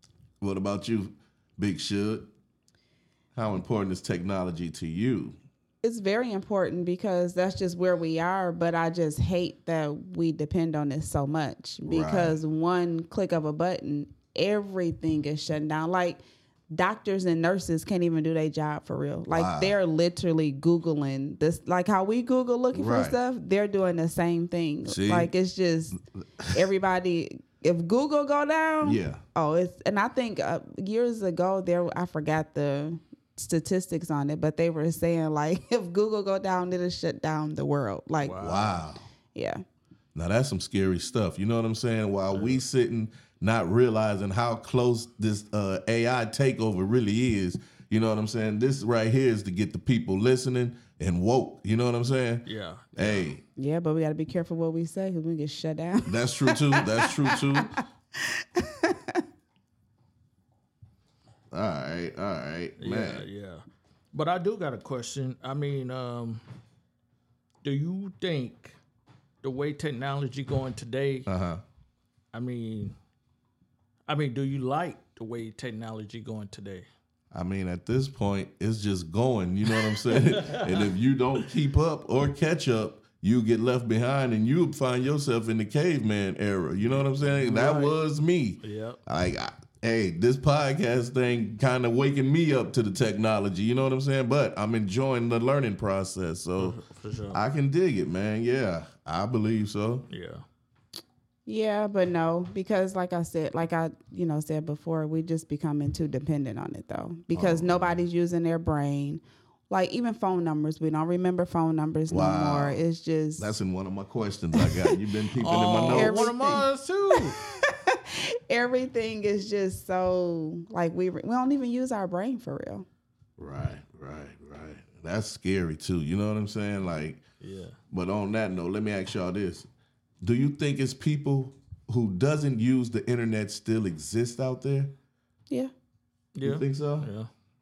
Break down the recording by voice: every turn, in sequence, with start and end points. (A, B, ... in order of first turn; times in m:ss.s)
0:00.4-0:02.3 A
0:03.3-0:05.4 A
0:05.8-0:26.0 B
0:11.8-0:12.4 A
0:19.3-0:19.7 A
0:22.7-0:23.2 A
0:24.8-0:25.3 A
0:26.5-0:38.4 B
0:28.8-0:29.2 A
0:38.2-0:38.8 C
0:38.4-0:39.0 A
0:39.3-0:39.6 B
0:40.1-0:53.4 A
0:42.3-0:42.6 C
0:52.4-0:53.3 C
0:53.6-0:57.6 B
0:56.0-0:57.7 A
0:58.2-0:59.2 B
1:01.5-1:03.2 A
1:02.8-1:06.4 C
1:07.6-1:08.8 C
1:09.4-1:11.3 C
1:11.3-1:11.6 A
1:12.3-1:12.9 C
1:14.1-1:16.9 C
1:17.3-1:36.8 A
1:20.1-1:20.9 C
1:27.2-1:27.9 C
1:28.6-1:29.0 C
1:36.6-1:37.4 C
1:37.3-1:40.0 A
1:40.1-1:40.4 C
1:41.4-1:53.5 B
1:47.3-1:48.0 A
1:52.1-1:52.8 A
1:53.4-1:56.2 A
1:54.6-1:54.9 B
1:55.4-1:57.4 C
1:55.9-1:56.7 B
1:57.2-2:02.8 B
2:03.4-2:07.2 A
2:07.4-2:07.8 C
2:07.9-2:09.7 A
2:10.2-2:14.9 A
2:16.4-2:17.3 C
2:16.4-2:17.1 A